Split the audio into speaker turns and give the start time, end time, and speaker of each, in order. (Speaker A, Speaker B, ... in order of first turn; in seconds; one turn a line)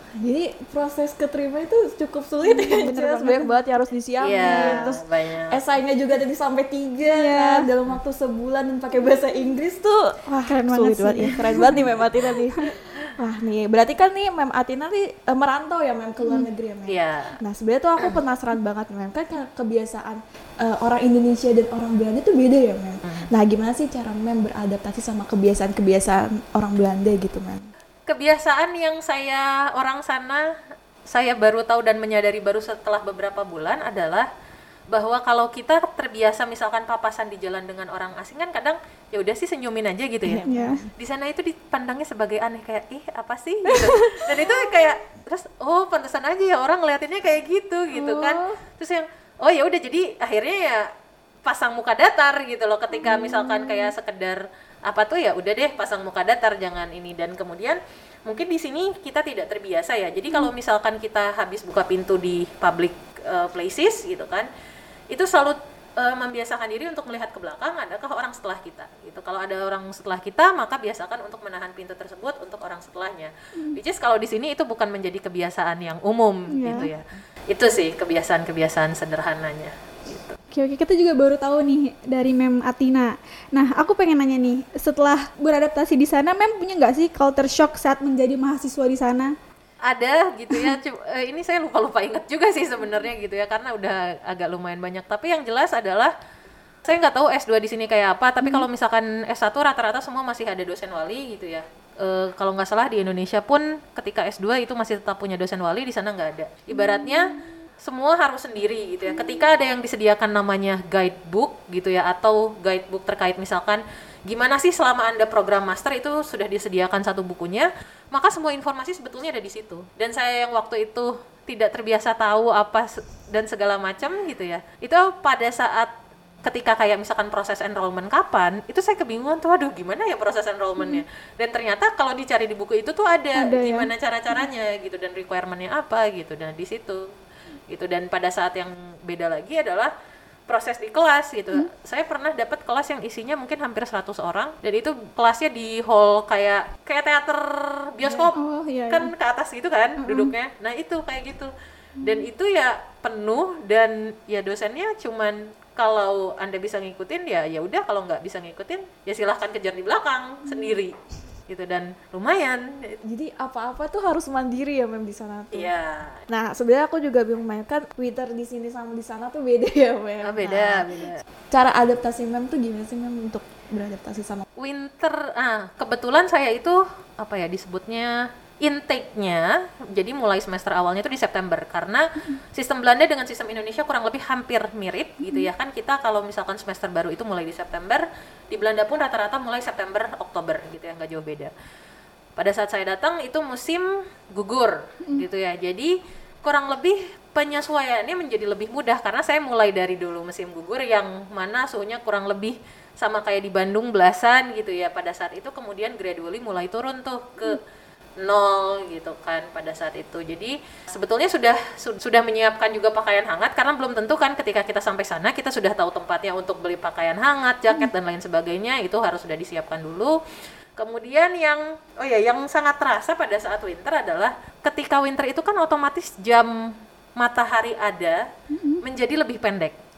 Speaker A: 0.2-27.7
Speaker B: 2.5-3.5
Speaker C: 4.2-5.6
Speaker B: 4.4-5.0
Speaker B: 7.1-7.7
Speaker B: 10.5-11.8
Speaker C: 16.9-17.4
Speaker C: 28.1-30.4
Speaker C: 31.1-34.3
Speaker C: 34.9-40.5
Speaker A: 40.2-40.9
Speaker B: 40.5-40.8
Speaker C: 41.0-50.9
Speaker B: 43.7-44.7
Speaker B: 47.9-48.6
Speaker C: 51.5-64.5
Speaker B: 53.0-53.9
Speaker C: 65.1-80.4
Speaker B: 76.5-76.9
Speaker B: 80.5-89.3
Speaker C: 89.9-96.1
Speaker C: 96.8-125.9
Speaker B: 106.8-107.1
Speaker C: 126.4-137.1
Speaker B: 133.4-133.9
Speaker C: 137.7-139.9
Speaker C: 140.5-148.4
Speaker B: 148.4-149.1
Speaker C: 148.9-151.5
Speaker B: 150.0-150.3
Speaker C: 152.0-161.0
Speaker B: 160.4-160.7
Speaker C: 161.5-163.0
Speaker A: 163.1-165.7
Speaker C: 165.5-166.2
Speaker A: 166.3-174.4
Speaker C: 170.2-171.2
Speaker C: 174.6-191.5
Speaker B: 185.2-185.5
Speaker C: 192.4-207.6
Speaker C: 208.2-220.2
Speaker C: 220.8-226.5
Speaker C: 227.2-228.2
Speaker B: 228.5-228.8
Speaker C: 228.8-229.8